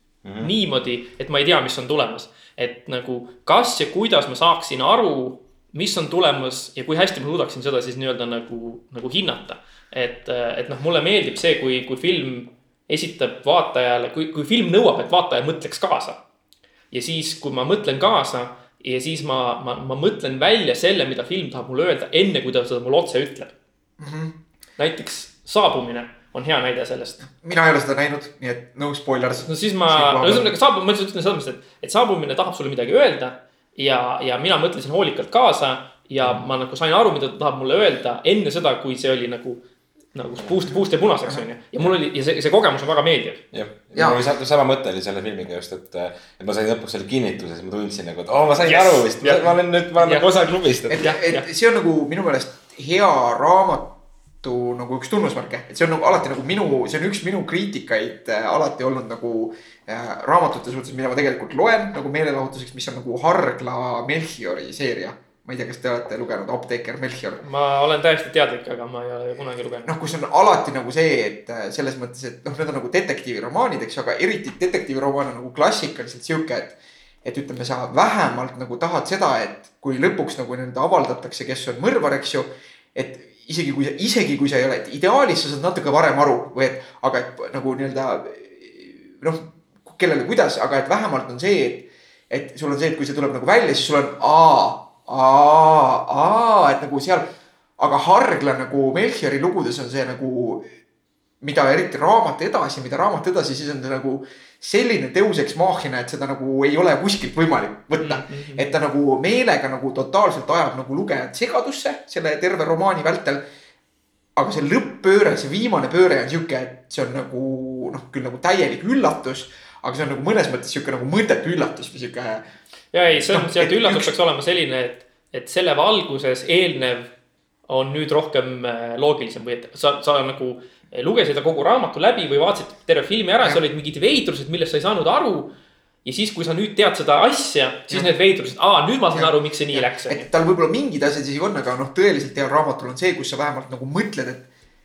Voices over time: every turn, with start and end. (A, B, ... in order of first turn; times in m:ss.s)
0:00.2-0:00.5 A
0:00.4-0:16.2 B
0:16.9-0:23.5 B
0:24.0-0:24.4 C
0:24.8-0:27.2 B
0:27.3-0:30.5 C
0:29.4-0:39.6 B
0:40.1-0:43.4 B
0:43.5-0:51.1 A
0:43.9-0:44.2 C
0:48.6-0:50.5 B
0:50.9-1:07.4 C
0:51.0-0:51.4 B
1:07.4-1:09.9 B
1:09.8-1:40.7 C
1:41.4-1:53.4 C
1:48.0-1:48.7 B
1:54.4-2:02.4 C
2:02.9-2:07.1 B
2:03.2-2:04.1 C
2:07.7-2:15.5 B
2:16.0-2:20.3 B
2:17.9-2:18.1 C
2:19.1-2:24.5 C